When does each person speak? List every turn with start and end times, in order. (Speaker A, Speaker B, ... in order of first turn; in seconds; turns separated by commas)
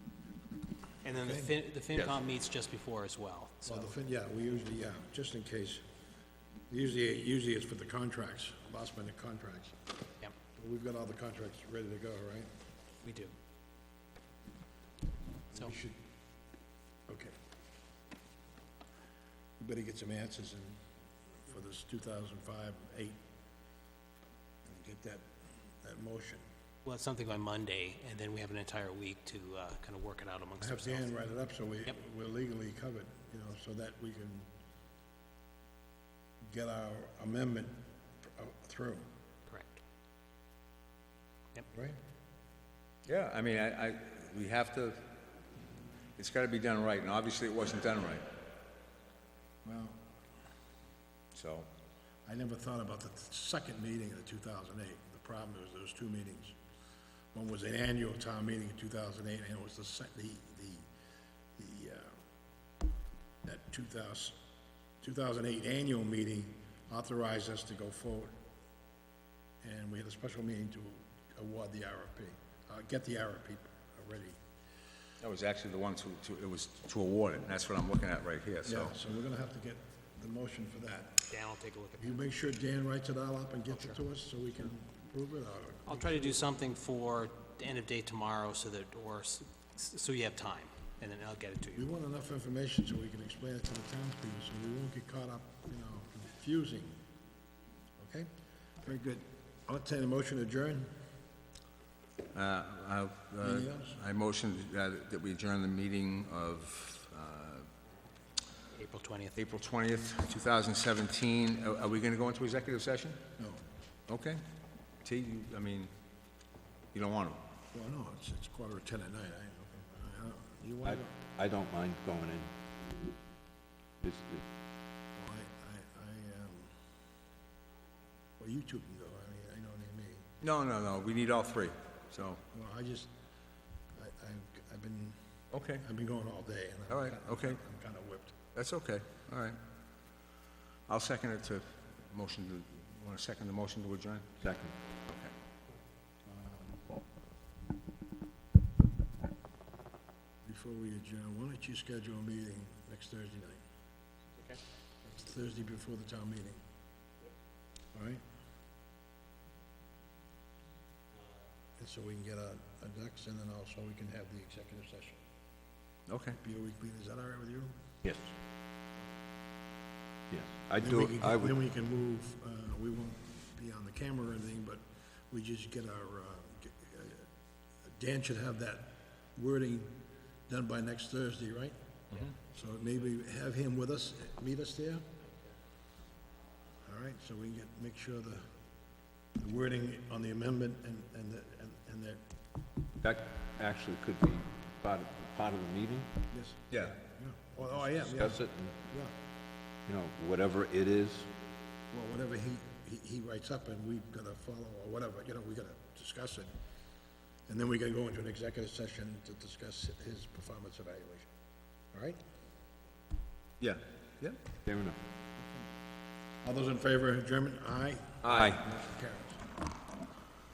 Speaker A: 1.0-3.9, Speaker B: 1.2-1.5, Speaker B: 3.6-5.8, Speaker B: 6.7-9.7, Speaker B: 10.6-12.5, Speaker A: 13.0-13.3, Speaker B: 15.5-16.0, Speaker B: 17.1-17.3, Speaker B: 19.6-20.8, Speaker B: 21.4-23.2, Speaker B: 24.6-25.2, Speaker B: 25.8-26.4, Speaker A: 26.8-31.1, Speaker B: 30.6-34.5, Speaker B: 36.5-39.1, Speaker A: 39.5-39.8, Speaker B: 41.7-42.0, Speaker C: 43.1-45.1, Speaker C: 46.2-48.3, Speaker B: 49.6-50.0, Speaker C: 51.3-51.7, Speaker B: 52.2-56.5, Speaker B: 57.3-60.9, Speaker B: 61.5-62.1, Speaker B: 63.4-64.4, Speaker B: 65.0-68.3, Speaker B: 69.6-74.4, Speaker C: 75.2-78.9, Speaker B: 78.6-81.3, Speaker A: 81.3-82.2, Speaker B: 82.0-86.5, Speaker A: 85.9-91.9, Speaker B: 91.8-97.0, Speaker B: 98.0-98.3, Speaker B: 98.8-100.9, Speaker C: 102.3-107.7, Speaker B: 103.4-104.0, Speaker A: 108.7-109.4, Speaker C: 109.3-113.2, Speaker B: 113.4-113.6, Speaker C: 114.1-114.4, Speaker C: 115.0-115.9, Speaker C: 116.9-117.4, Speaker B: 117.7-121.2, Speaker D: 120.8-122.5, Speaker D: 124.0-124.5, Speaker B: 125.2-126.7, Speaker B: 128.4-130.3, Speaker C: 130.4-132.4, Speaker B: 132.5-133.1, Speaker B: 133.9-135.2, Speaker C: 135.5-135.8, Speaker B: 135.7-138.3, Speaker C: 136.9-137.6, Speaker C: 138.5-139.6, Speaker C: 140.9-144.3, Speaker D: 144.4-144.7, Speaker C: 145.1-145.3, Speaker B: 146.2-146.8, Speaker B: 150.4-153.6, Speaker B: 155.0-156.6, Speaker B: 157.9-158.2, Speaker B: 161.8-165.2, Speaker C: 166.1-166.4, Speaker B: 166.4-167.7, Speaker D: 168.0-168.3, Speaker D: 170.3-171.5, Speaker B: 170.8-177.3, Speaker B: 177.9-181.8, Speaker B: 182.3-185.0, Speaker B: 186.8-188.5, Speaker B: 189.4-192.2, Speaker D: 193.0-196.1, Speaker B: 196.3-199.1, Speaker C: 196.7-197.0, Speaker D: 197.7-198.8, Speaker D: 199.8-201.3, Speaker B: 201.9-206.5, Speaker B: 207.5-211.3, Speaker B: 211.9-212.2, Speaker C: 213.6-214.4, Speaker D: 214.6-215.0, Speaker B: 216.4-219.4, Speaker C: 218.2-218.5, Speaker D: 218.3-218.6